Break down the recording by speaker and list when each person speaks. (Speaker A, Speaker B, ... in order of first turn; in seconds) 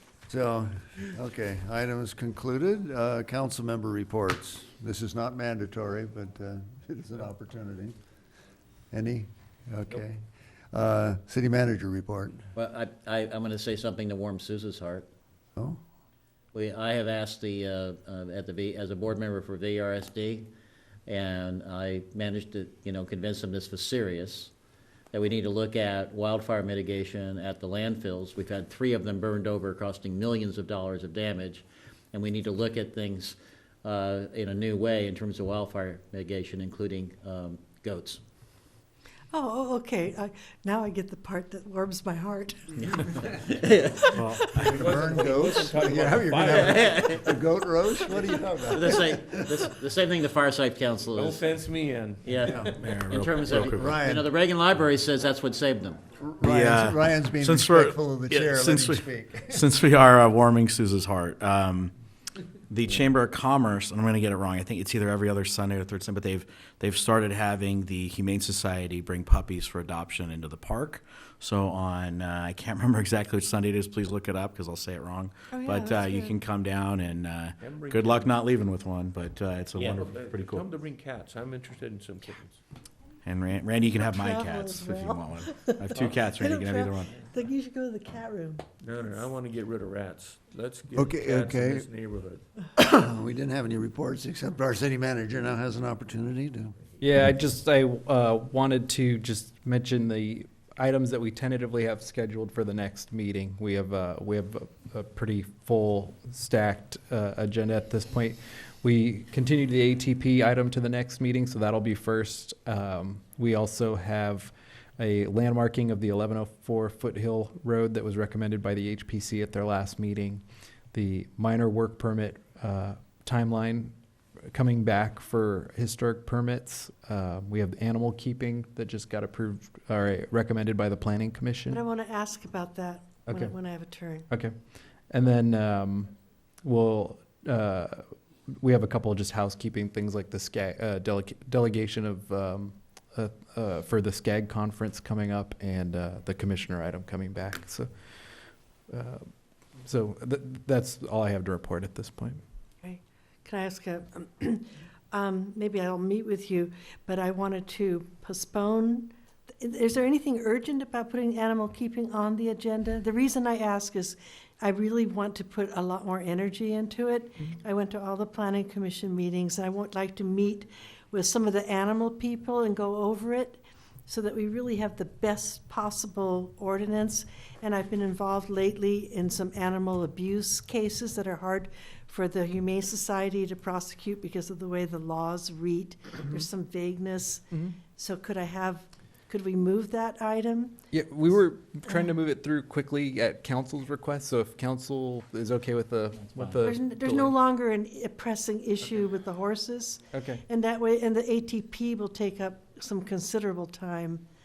Speaker A: 0.3-8.0, 8.9-12.4, 44.4-49.5, 52.5-52.8, 53.7-54.3, 56.2-59.6, 90.9-91.9, 92.8-96.8
Speaker B: 12.6-15.1, 16.5-20.5, 21.1-24.5, 25.1-38.2, 43.5-44.1, 46.4-47.3, 48.7-51.4, 52.2-56.0, 79.8-80.0, 196.2-196.7
Speaker C: 39.3-43.5, 75.5-76.4, 84.0-85.8, 86.4-88.6, 131.7-134.3, 152.8-190.8, 196.6-204.2
Speaker D: 44.2-44.5, 52.7-54.0, 56.4-61.9, 62.7-80.7, 83.3-87.1
Speaker E: 44.6-47.1, 51.1-52.6, 77.6-78.3, 79.8-82.6, 88.8-92.4
Speaker F: 97.0-120.4, 120.9-123.9, 124.5-131.8, 133.3-133.6, 134.3-134.5, 135.1-136.1, 136.6-147.9, 148.9-149.2, 149.8-152.4, 190.9-197.3, 200.1-200.4